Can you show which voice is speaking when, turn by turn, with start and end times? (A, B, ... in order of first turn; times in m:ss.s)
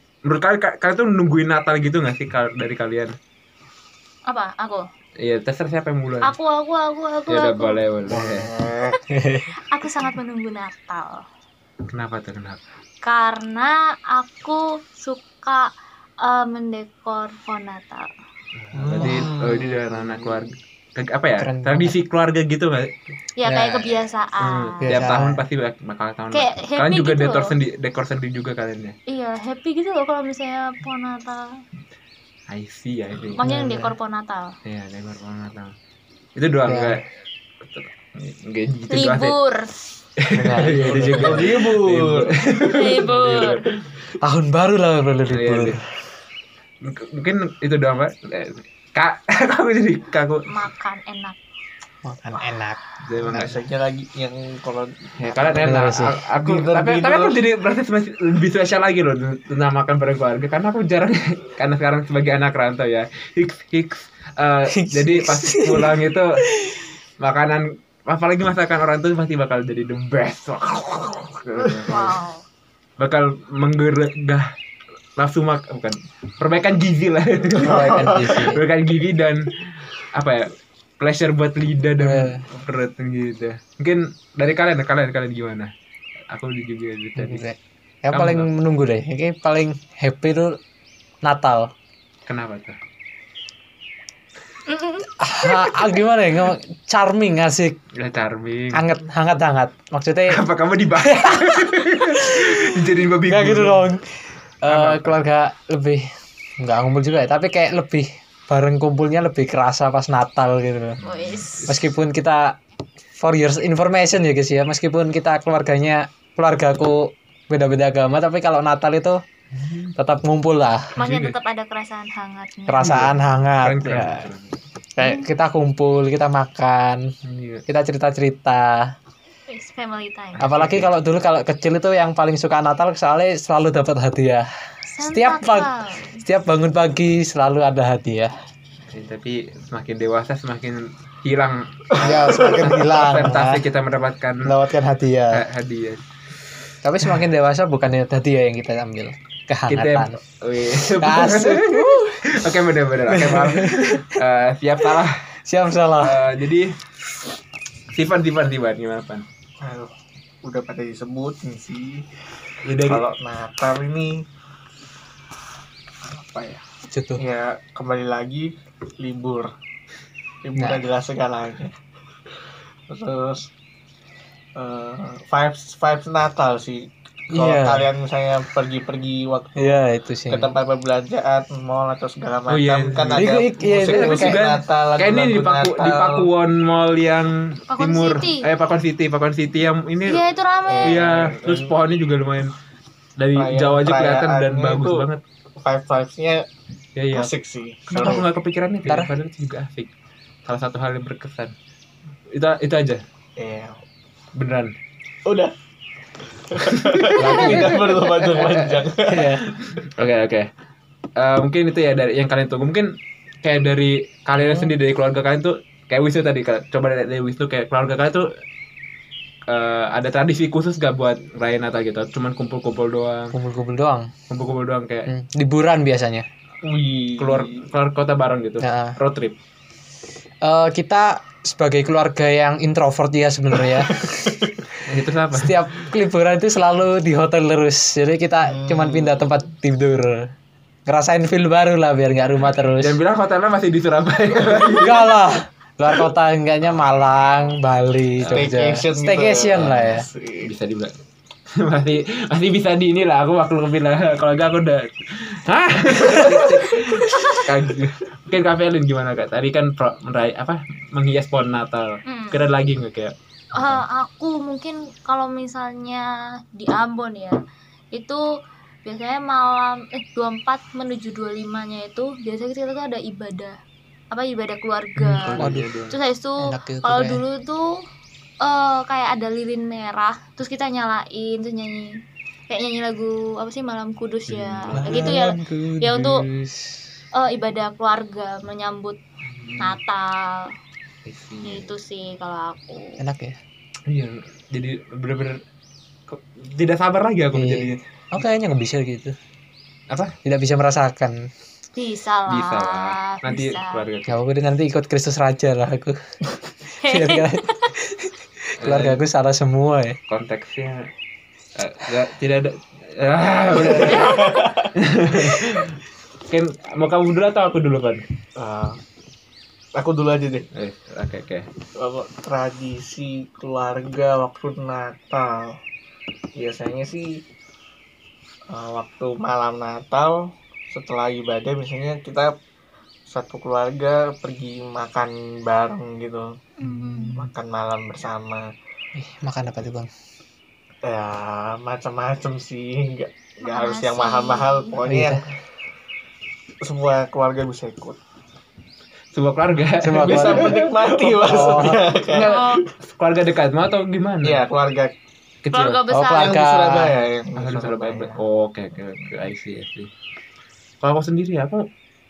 0:00.2-0:03.2 A
0:04.3-0:04.8 B
0:05.2-0:06.3 A
0:06.2-0:07.8 B
0:07.3-0:08.5 A
0:08.1-0:09.0 C
0:09.1-0:09.5 D
0:09.6-0:11.2 B
0:11.9-0:12.6 A
0:13.0-0:15.7 B
0:16.2-0:18.1 B
0:18.6-0:23.0 A
0:18.8-0:20.4 C
0:21.4-0:22.0 D
0:23.4-0:25.1 B
0:23.4-0:23.9 D
0:24.4-0:29.0 A
0:24.8-0:25.4 D
0:26.3-0:27.5 B
0:29.1-0:31.5 B
0:32.5-0:33.4 A
0:33.4-0:34.5 B
0:33.4-0:33.9 D
0:34.6-0:35.7 A
0:36.4-0:37.0 A
0:36.6-0:37.0 D
0:37.6-0:39.4 A
0:38.9-0:39.7 B
0:40.2-0:43.7 A
0:40.3-0:41.5 D
0:40.7-0:43.0 C
0:42.7-0:43.6 B
0:44.2-0:45.8 D
0:45.3-0:45.8 A
0:46.8-0:50.4 A
0:50.5-0:51.4 B
0:52.0-0:53.5 D
0:53.0-0:53.6 A
0:53.2-0:55.8 C
0:55.2-1:06.4 A
0:55.6-0:56.2 D
0:56.4-0:57.4 C
1:04.7-1:06.0 D
1:06.6-1:06.8 D
1:07.2-1:12.1 A
1:11.6-1:12.1 C
1:11.9-1:12.4 B
1:13.0-1:14.5 A
1:15.2-1:25.7 A
1:17.5-1:18.5 C
1:17.6-1:18.6 D
1:22.0-1:22.4 D
1:26.3-1:27.4 A
1:27.2-1:30.6 D
1:28.1-1:28.5 A
1:31.2-1:31.7 D
1:32.3-1:32.8 A
1:35.0-1:37.8 D
1:37.9-1:38.9 A
1:38.7-1:40.4 D
1:40.3-1:43.9 A
1:41.0-1:51.0 D
1:44.7-1:45.2 A
1:51.0-1:51.8 A
1:51.0-1:51.7 B
1:51.7-1:52.6 D
1:53.2-1:59.2 D
1:59.6-1:59.9 A
2:00.0-2:00.9 D
2:01.0-2:01.3 A
2:01.0-2:02.8 B
2:02.7-2:04.3 D
2:02.8-2:04.6 A
2:05.0-2:07.1 D
2:07.2-2:07.6 A
2:07.7-2:08.9 D
2:09.5-2:10.4 B
2:10.4-2:10.9 A
2:10.4-2:14.5 D
2:14.9-2:16.2 B
2:15.0-2:15.7 D
2:16.2-2:18.3 D
2:18.9-2:24.6 A
2:22.0-2:23.6 D
2:22.1-2:22.7 C
2:24.4-2:25.4 D
2:25.3-2:26.0 A
2:26.8-2:30.2 D
2:29.7-2:35.2 A
2:30.9-2:32.3 D
2:33.1-2:34.2 D
2:34.8-2:36.3 D
2:36.0-2:36.7 A
2:37.9-2:39.2 A
2:39.6-2:39.9 C
2:40.4-2:42.1 C
2:42.6-2:43.0 A
2:42.8-2:44.2 C
2:46.0-2:46.6 C
2:46.9-2:47.2 D
2:47.2-2:49.5 C
2:50.4-2:51.8 C
2:50.6-2:50.8 D
2:52.9-2:53.5 C
2:54.6-3:06.3 C
2:57.3-2:57.9 D
2:59.6-3:00.5 D
3:02.5-3:10.2 A
3:03.1-3:04.4 D
3:07.7-3:08.4 B
3:10.1-3:11.0 B
3:10.7-3:11.7 C
3:10.8-3:12.5 A
3:13.2-3:15.2 A
3:13.4-3:15.1 C
3:15.6-3:16.5 C
3:17.0-3:17.3 A
3:17.1-3:18.3 C
3:17.9-3:19.9 A
3:17.9-3:18.2 D
3:18.9-3:19.1 D
3:20.5-3:21.5 A
3:22.3-3:23.0 A
3:23.4-3:23.8 C
3:24.4-3:24.7 A
3:25.3-3:25.5 C
3:26.5-3:29.4 C
3:26.9-3:28.9 A
3:27.2-3:27.7 D
3:29.1-3:29.4 D
3:29.4-3:30.5 A
3:31.2-3:38.3 A
3:34.4-3:34.7 D
3:39.5-3:43.4 A
3:43.3-3:44.1 D
3:44.3-3:45.1 A
3:45.1-3:46.3 D
3:46.6-3:47.7 C
3:47.2-3:49.4 A
3:48.6-3:49.0 D
3:50.4-3:54.5 D
3:53.7-3:54.5 C
3:54.8-3:55.6 A
3:55.3-4:00.3 D
3:58.5-3:59.2 C
4:00.9-4:03.0 D
4:02.8-4:05.1 A
4:04.7-4:10.1 D
4:08.2-4:08.6 A
4:08.3-4:10.5 C
4:09.6-4:11.0 A
4:11.6-4:23.8 A
4:16.1-4:16.4 C
4:17.2-4:17.4 B
4:22.0-4:22.4 B
4:23.6-4:27.4 B
4:27.9-4:28.3 B
4:28.8-4:33.6 B
4:34.1-4:37.8 B
4:35.0-4:36.0 A
4:35.4-4:35.7 D
4:36.4-4:37.2 D
4:38.4-4:46.2 B
4:44.3-4:45.2 A
4:44.7-4:46.8 D
4:47.1-4:49.0 B
4:49.3-4:49.8 A
4:49.6-4:50.5 B
4:51.0-4:51.7 A
4:51.4-4:53.0 B
4:53.0-4:53.4 D
4:53.9-4:55.4 A
4:56.1-4:57.8 A
4:57.3-4:59.2 D
5:00.2-5:01.3 D
5:01.8-5:03.8 B
5:02.3-5:04.2 A
5:04.1-5:06.0 D
5:06.8-5:07.7 B
5:06.8-5:10.0 D
5:08.6-5:09.0 A
5:10.1-5:10.9 A
5:11.6-5:15.8 A
5:13.5-5:15.6 C
5:13.8-5:14.4 B
5:16.3-5:18.0 A
5:18.4-5:18.8 C
5:19.8-5:20.5 C
5:20.5-5:21.5 A
5:21.8-5:25.6 C
5:26.4-5:27.2 C
5:28.5-5:32.3 C
5:33.1-5:36.4 C
5:36.6-5:37.2 B
5:36.7-5:37.2 D
5:37.1-5:38.5 C
5:39.0-5:39.9 D
5:40.8-5:45.2 C
5:43.4-5:44.8 B
5:44.9-5:45.2 D
5:46.6-5:48.0 C
5:49.1-5:54.4 A
5:49.8-5:50.6 D
5:49.9-5:52.5 C
5:51.2-5:51.8 D
5:52.2-5:52.6 B
5:54.2-5:54.9 C
5:55.5-5:55.8 A
5:55.5-5:56.4 B
5:55.9-5:57.0 D
5:56.1-5:58.2 C
5:57.4-5:59.9 A
6:00.8-6:01.7 A